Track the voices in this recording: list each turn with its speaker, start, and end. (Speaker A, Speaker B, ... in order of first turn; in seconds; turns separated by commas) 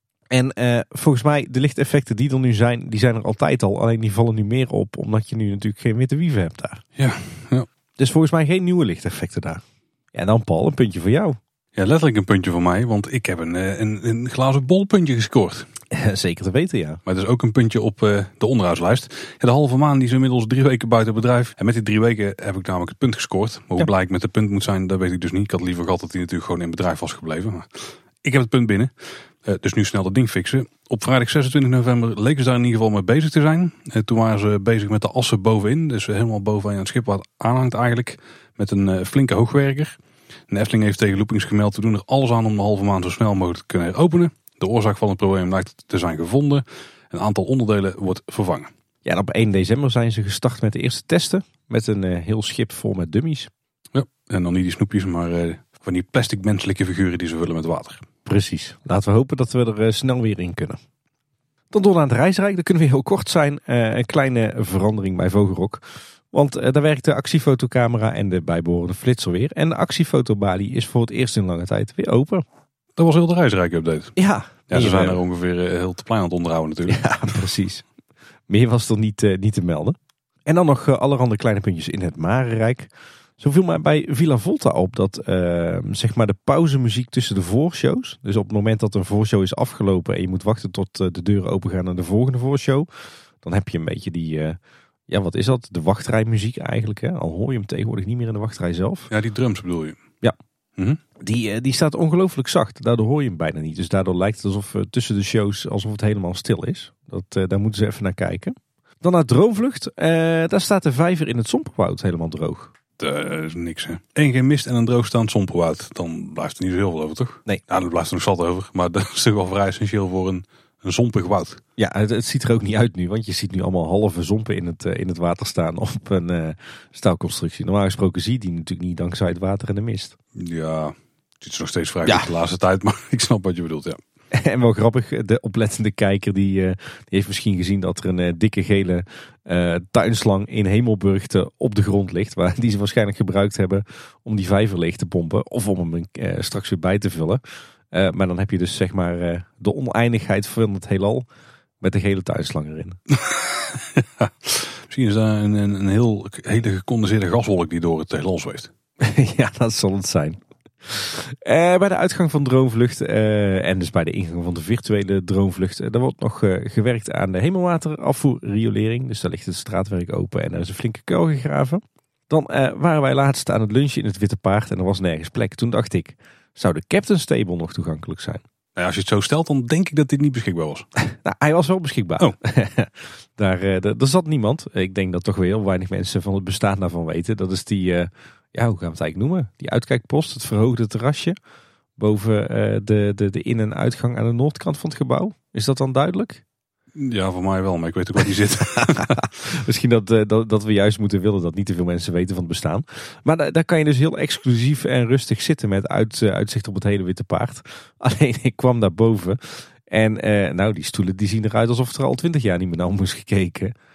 Speaker A: 0.3-6.8, Speaker B: 7.0-7.7, Speaker A: 8.0-9.6, Speaker A: 10.1-11.4, Speaker B: 11.8-15.7, Speaker A: 15.9-17.0, Speaker B: 17.1-28.9, Speaker B: 29.4-40.0, Speaker B: 40.5-48.7, Speaker A: 49.0-53.5, Speaker B: 53.9-58.0, Speaker A: 58.2-60.8, Speaker A: 61.7-72.4, Speaker B: 73.0-74.1, Speaker A: 74.2-75.2, Speaker B: 74.7-77.4, Speaker A: 76.9-77.8, Speaker A: 78.5-92.9, Speaker A: 93.4-99.1, Speaker B: 99.1-100.0, Speaker A: 101.2-112.7, Speaker B: 113.0-121.6, Speaker A: 121.8-130.2, Speaker B: 130.3-134.0, Speaker A: 134.3-147.4, Speaker A: 147.9-151.3, Speaker A: 151.8-153.0, Speaker B: 153.1-158.7, Speaker A: 159.0-178.4, Speaker B: 178.8-180.9, Speaker A: 181.0-191.3, Speaker A: 192.0-196.4, Speaker B: 196.9-199.3, Speaker A: 198.8-213.7